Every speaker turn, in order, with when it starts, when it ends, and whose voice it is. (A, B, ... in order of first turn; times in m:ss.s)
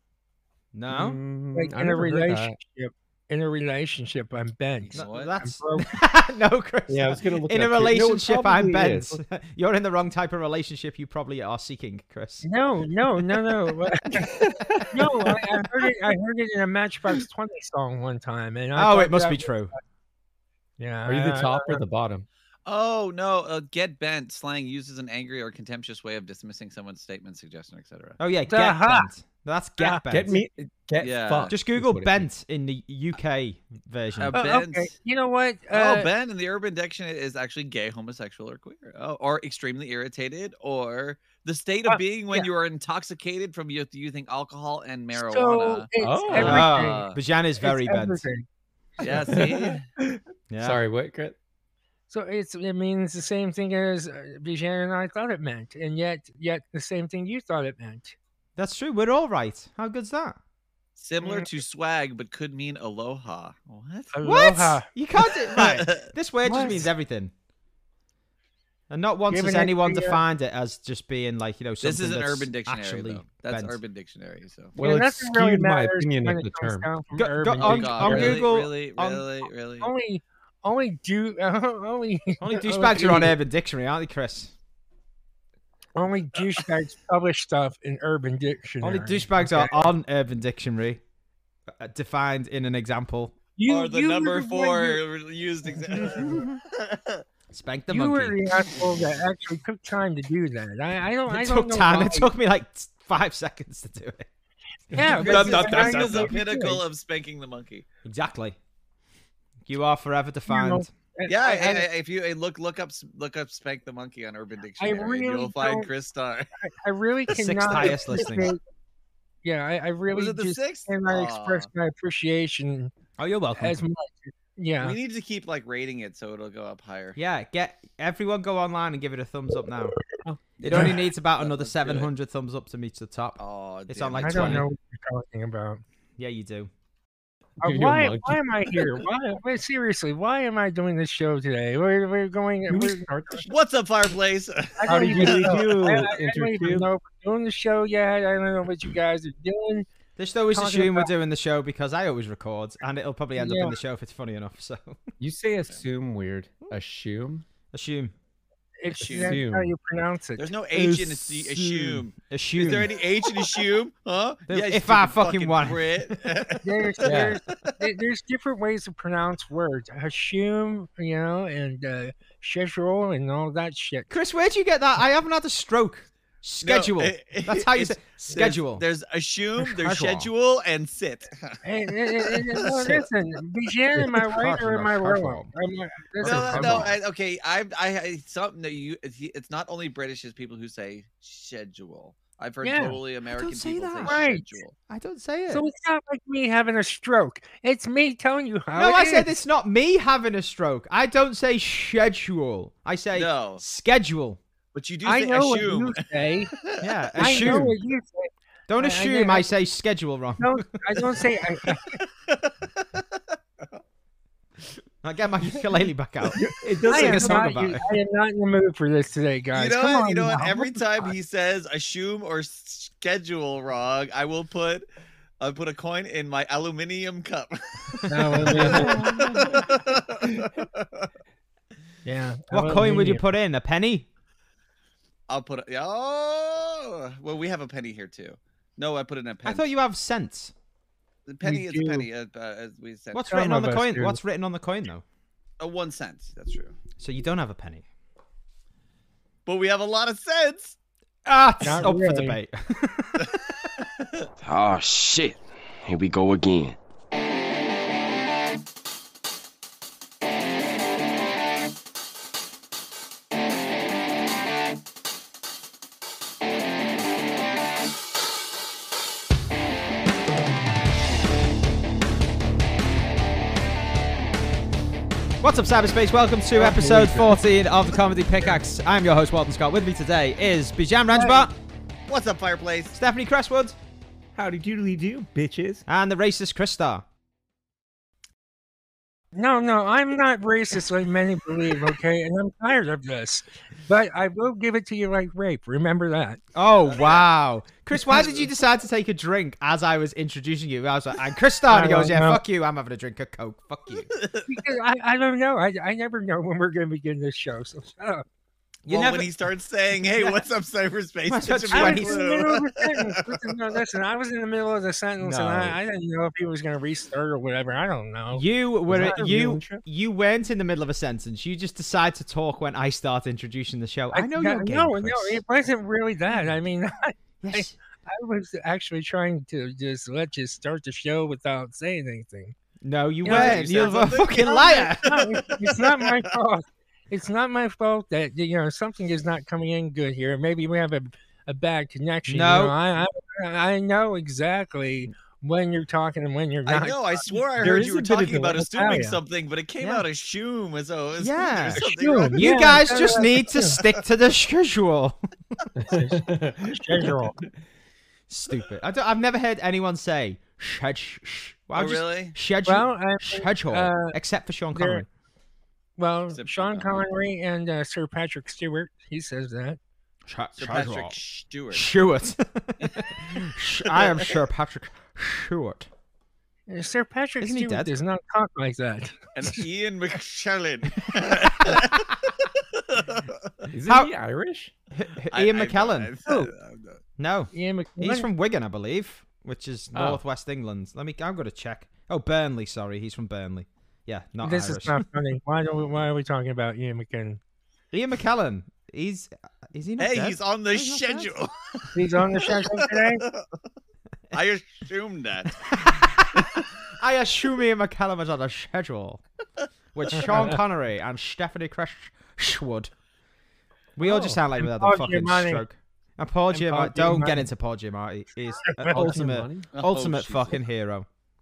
0:00.7-0:01.2 A
0:00.9-0:02.6 B
0:01.5-0:06.0 C
0:04.9-0:05.3 D
0:05.0-0:12.4 A
0:06.9-0:09.2 B
0:12.4-0:14.4 C
0:14.2-0:15.4 B
0:14.9-0:19.8 C
0:18.7-0:19.7 A
0:20.8-0:21.8 C
0:21.0-0:22.2 B
0:22.6-0:28.2 D
0:28.2-0:30.4 A
0:28.5-0:29.1 C
0:30.1-0:32.3 B
0:31.0-0:31.5 D
0:31.5-0:34.3 A
0:34.2-0:34.9 D
0:34.3-0:36.1 C
0:35.7-0:47.2 D
0:41.9-0:42.4 C
0:45.1-0:47.0 C
0:46.0-0:46.6 B
0:46.4-0:48.2 A
0:47.6-0:48.4 C
0:49.0-0:49.8 D
0:49.1-0:51.4 B
0:50.5-0:50.8 A
0:52.1-0:58.2 C
0:58.6-1:00.4 A
1:01.0-1:04.1 D
1:01.2-1:01.5 C
1:04.1-1:04.9 C
1:04.2-1:07.3 A
1:05.2-1:06.1 D
1:06.4-1:06.9 C
1:08.9-1:13.8 A
1:09.3-1:10.2 C
1:11.8-1:14.7 D
1:14.7-1:16.9 B
1:14.8-1:18.3 C
1:17.2-1:19.2 A
1:17.6-1:19.9 D
1:18.0-1:18.5 B
1:19.8-1:23.3 C
1:22.4-1:24.5 A
1:26.0-1:29.9 C
1:28.8-1:31.0 A
1:31.8-1:33.4 A
1:33.6-1:35.0 C
1:33.7-1:37.2 D
1:35.9-1:36.4 C
1:36.3-1:36.6 A
1:37.5-1:38.4 A
1:37.9-1:42.3 C
1:41.3-1:44.3 A
1:44.9-1:46.8 C
1:45.1-1:46.3 A
1:45.2-1:47.8 D
1:48.0-1:48.6 A
1:49.6-1:50.9 A
1:50.5-1:51.9 C
1:51.3-1:56.5 D
1:54.8-1:55.9 C
1:56.6-1:58.6 C
1:57.3-1:58.5 A
1:57.7-1:58.1 D
1:59.4-2:02.9 C
2:00.1-2:01.7 D
2:03.2-2:03.8 A
2:03.5-2:05.0 C
2:04.8-2:07.2 D
2:07.2-2:10.0 A
2:10.2-2:10.8 B
2:10.6-2:12.1 D
2:10.6-2:14.6 A
2:13.4-2:14.6 D
2:14.2-2:15.8 C
2:16.2-2:16.7 A
2:17.6-2:18.4 B
2:17.6-2:23.4 C
2:22.7-2:23.5 B
2:23.4-2:25.8 D
2:24.8-2:29.9 C
2:24.8-2:26.9 B
2:30.2-2:35.0 A
2:30.5-2:31.1 C
2:33.4-2:33.8 C
2:35.2-2:37.4 B
2:37.7-2:38.1 A
2:38.8-2:40.5 C
2:39.0-2:39.7 B
2:39.0-2:39.4 D
2:40.4-2:47.7 D
2:40.7-2:42.9 A
2:44.5-2:45.9 A
2:46.6-2:54.1 C
2:47.0-2:47.4 B
2:54.1-2:58.8 A
2:56.6-3:02.5 D
2:59.6-3:00.3 A
3:01.6-3:06.9 C
3:02.6-3:03.1 A
3:04.0-3:05.5 A
3:06.2-3:14.8 D
3:06.2-3:06.9 A
3:06.4-3:06.9 B
3:12.6-3:13.0 C
3:13.3-3:14.2 A
3:14.0-3:14.6 C
3:14.9-3:15.6 A
3:15.5-3:19.4 C
3:18.7-3:24.4 A
3:23.1-3:23.6 D
3:24.7-3:27.5 D
3:25.0-3:26.5 C
3:26.8-3:27.8 A
3:27.2-3:29.5 C
3:28.7-3:30.6 A
3:30.4-3:32.0 C
3:32.2-3:33.2 D
3:35.0-3:37.8 A
3:36.4-3:37.6 B
3:36.8-3:41.1 C
3:39.5-3:44.8 D
3:45.4-3:51.1 D
3:48.1-3:49.1 C
3:48.5-3:50.6 B
3:48.6-3:48.9 A
3:52.0-3:53.2 C
3:52.5-3:54.1 A
3:55.3-3:59.6 D
3:59.4-4:00.5 A
4:01.3-4:03.5 D
4:01.4-4:02.1 C
4:03.1-4:05.0 A
4:03.3-4:04.2 C
4:05.6-4:06.7 D
4:07.0-4:07.8 A
4:09.4-4:10.8 D
4:11.2-4:13.3 A
4:11.6-4:12.4 C
4:14.4-4:16.8 E
4:35.4-4:41.5 A
4:36.5-4:37.4 B
4:42.1-4:43.0 D
4:42.9-4:43.8 A
4:44.3-4:45.8 B
4:45.9-4:47.0 A
4:49.3-4:56.4 C
4:56.5-5:04.1 A
4:56.9-4:57.3 D
4:58.1-4:58.4 D
5:01.7-5:02.4 C
5:04.1-5:04.5 D
5:04.5-5:08.2 C
5:08.8-5:09.3 A
5:08.9-5:13.4 D
5:11.3-5:12.3 A
5:11.7-5:19.3 C
5:15.2-5:15.8 B
5:18.3-5:25.4 A
5:18.9-5:19.8 B
5:24.1-5:32.5 C
5:27.4-5:27.7 A
5:32.8-5:35.1 A
5:33.2-5:47.4 C
5:33.2-5:36.1 D
5:42.3-5:42.7 A
5:46.6-5:52.5 D
5:47.6-5:48.7 B
5:48.6-5:49.2 C
5:51.2-5:55.2 A
5:51.8-5:53.8 C
5:55.8-5:57.1 B
5:55.9-5:57.4 C
5:58.3-6:05.1 A
6:01.8-6:02.4 D
6:02.6-6:04.2 C
6:04.7-6:05.0 C
6:06.0-6:09.8 C
6:06.3-6:07.0 D
6:10.3-6:11.2 A
6:10.6-6:11.9 D
6:11.7-6:15.9 A
6:13.8-6:14.3 D
6:16.7-6:19.6 C
6:17.4-6:17.9 A
6:19.4-6:23.6 D
6:21.6-6:22.0 A
6:23.7-6:24.7 B
6:23.8-6:24.1 A
6:24.9-6:26.1 A
6:25.3-6:27.0 D
6:26.2-6:26.5 C
6:27.2-6:35.0 A
6:27.5-6:28.3 C
6:29.9-6:30.2 B
6:34.4-6:37.4 C
6:37.9-6:41.3 A
6:40.0-6:43.5 D
6:41.9-6:43.2 C
6:44.3-6:45.6 D
6:45.6-6:49.2 A
6:46.4-6:46.6 D
6:49.9-6:52.9 A
6:50.2-6:50.6 C
6:54.0-7:01.1 A
6:54.0-6:54.4 B
6:54.1-6:55.6 C
6:56.5-6:57.4 C
6:58.6-6:59.2 C
6:58.9-6:59.7 B
6:59.7-7:00.6 D